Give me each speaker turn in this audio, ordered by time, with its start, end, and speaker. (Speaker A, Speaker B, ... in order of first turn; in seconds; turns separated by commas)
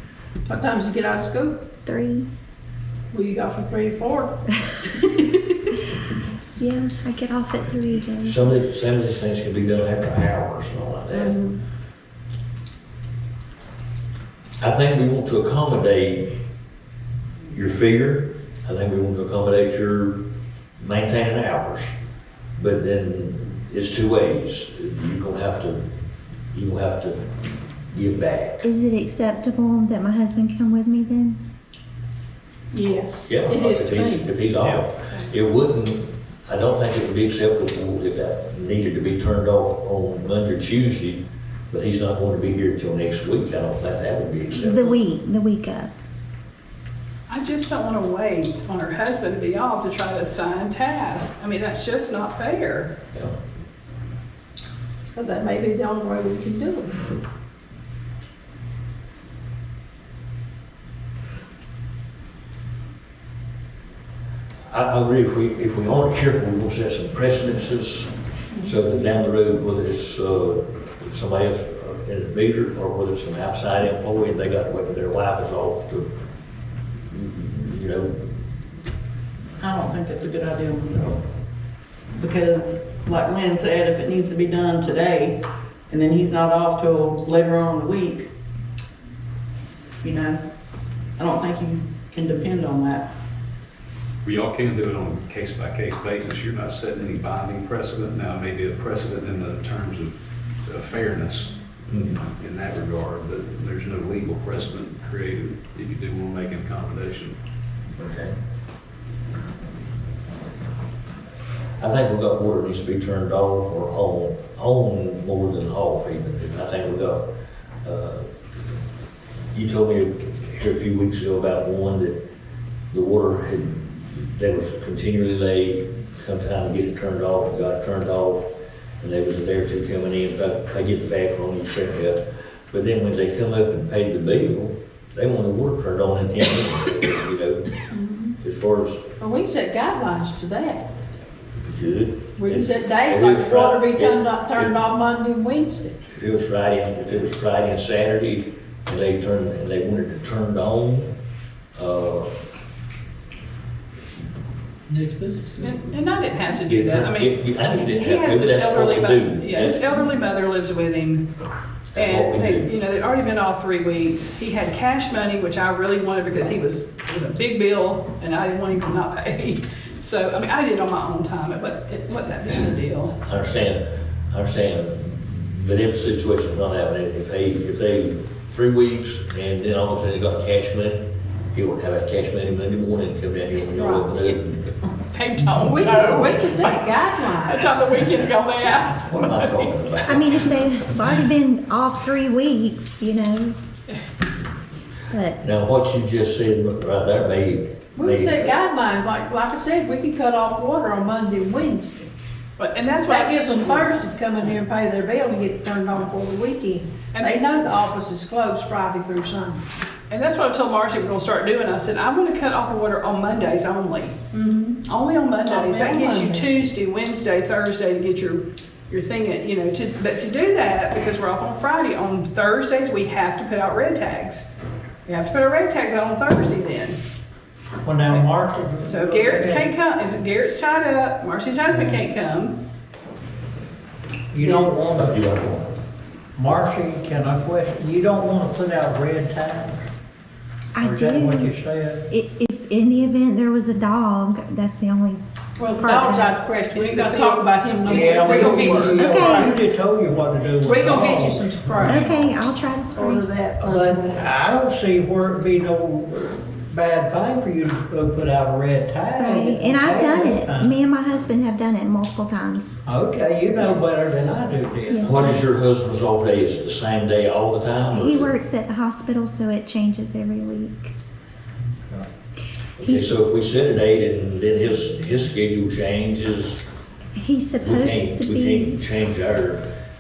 Speaker A: 0.5-1.6, Speaker B: 1.8-2.3, Speaker A: 3.1-4.3, Speaker B: 6.6-8.5, Speaker C: 8.2-11.4, Speaker A: 11.1-11.6, Speaker C: 14.6-16.3, Speaker C: 17.5-20.2, Speaker C: 20.8-21.9, Speaker C: 22.6-25.8, Speaker C: 26.5-27.2, Speaker C: 27.9-28.6, Speaker B: 28.6-31.4, Speaker A: 32.7-34.3, Speaker C: 33.3-45.0, Speaker B: 44.5-45.9, Speaker D: 47.3-52.9, Speaker A: 55.1-57.0, Speaker C: 64.7-76.1, Speaker C: 77.1-78.1, Speaker E: 79.6-81.2, Speaker E: 82.1-88.3, Speaker E: 90.0-90.4, Speaker E: 91.2-93.1, Speaker F: 94.2-100.1, Speaker F: 100.7-107.4, Speaker C: 108.0-108.3, Speaker C: 111.8-117.2, Speaker C: 117.8-118.2, Speaker C: 119.5-122.2, Speaker C: 122.9-128.4, Speaker C: 129.0-137.7, Speaker A: 137.9-138.3, Speaker C: 138.4-139.1, Speaker A: 139.2-140.8, Speaker C: 141.6-144.8, Speaker A: 142.4-145.9, Speaker C: 146.1-151.1, Speaker C: 151.8-152.3, Speaker G: 155.0-155.4, Speaker D: 155.6-161.3, Speaker C: 156.6-160.0, Speaker C: 161.9-162.7, Speaker D: 161.9-173.1, Speaker C: 173.2-184.7, Speaker A: 183.8-184.0, Speaker D: 183.8-184.4, Speaker D: 185.1-186.7, Speaker A: 185.6-187.7, Speaker D: 187.4-189.7, Speaker C: 189.0-190.6, Speaker B: 190.0-193.6, Speaker B: 195.1-195.4, Speaker C: 195.4-198.5, Speaker A: 197.9-202.1, Speaker D: 202.6-203.9, Speaker A: 203.1-209.6, Speaker D: 207.1-207.4, Speaker D: 210.1-214.3, Speaker A: 214.3-214.8, Speaker D: 214.8-224.5, Speaker A: 215.5-216.5, Speaker D: 225.1-227.0, Speaker G: 227.8-229.7, Speaker D: 228.8-232.6, Speaker G: 234.3-235.3, Speaker D: 234.4-234.7, Speaker C: 234.9-235.7, Speaker G: 236.3-239.8, Speaker B: 240.7-241.5, Speaker G: 240.8-242.0, Speaker B: 242.1-245.2, Speaker A: 245.6-249.5, Speaker B: 245.7-246.3, Speaker D: 246.7-249.5, Speaker G: 247.8-252.1, Speaker B: 248.9-249.5, Speaker A: 250.6-252.3, Speaker B: 251.8-253.2, Speaker A: 252.9-254.1, Speaker G: 253.6-260.7, Speaker B: 259.2-262.8, Speaker G: 262.9-265.4, Speaker B: 264.9-265.4, Speaker C: 265.0-268.3, Speaker B: 267.9-270.9, Speaker C: 272.8-276.6, Speaker B: 272.8-273.2, Speaker B: 277.2-278.9, Speaker C: 277.6-279.6